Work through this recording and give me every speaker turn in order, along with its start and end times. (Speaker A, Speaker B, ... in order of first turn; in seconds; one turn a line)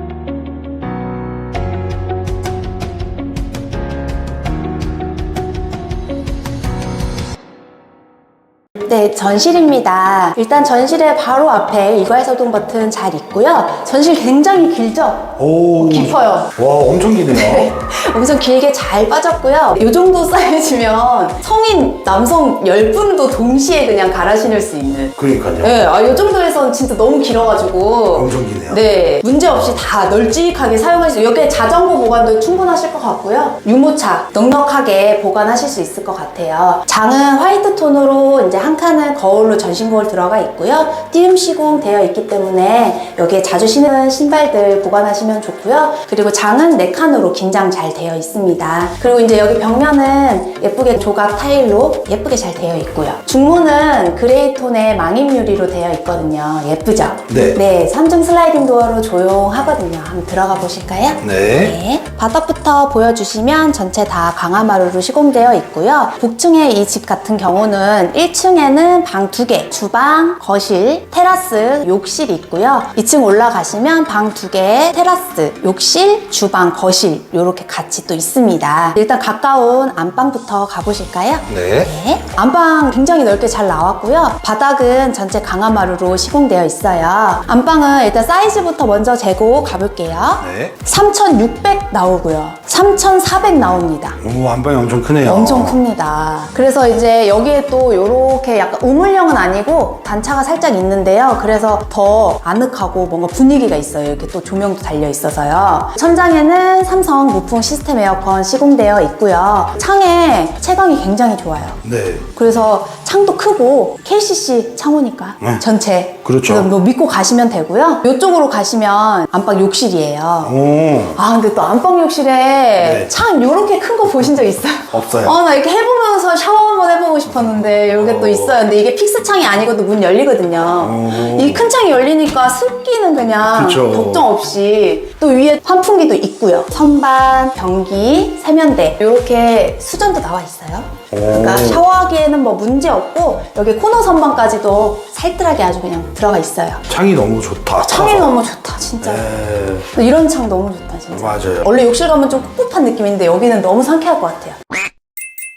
Speaker A: 8.8-16.5
Speaker B: 15.4-17.7
Speaker A: 17.3-94.2
Speaker B: 25.2-25.8
Speaker B: 28.1-28.8
Speaker B: 57.3-57.6
Speaker B: 61.2-61.8
Speaker B: 81.5-81.9
Speaker B: 90.4-90.8
Speaker B: 94.2-95.8
Speaker A: 95.2-111.8
Speaker B: 111.8-112.3
Speaker A: 112.3-120.5
Speaker B: 116.2-116.7
Speaker B: 120.4-121.2
Speaker A: 121.1-146.8
Speaker B: 122.8-123.1
Speaker B: 124.9-125.4
Speaker B: 127.9-128.6
Speaker B: 130.8-131.7
Speaker B: 133.5-134.2
Speaker B: 141.1-141.8
Speaker B: 146.9-148.3
Speaker A: 147.8-149.3
Speaker B: 149.0-149.9
Speaker A: 149.9-154.6
Speaker B: 151.1-151.7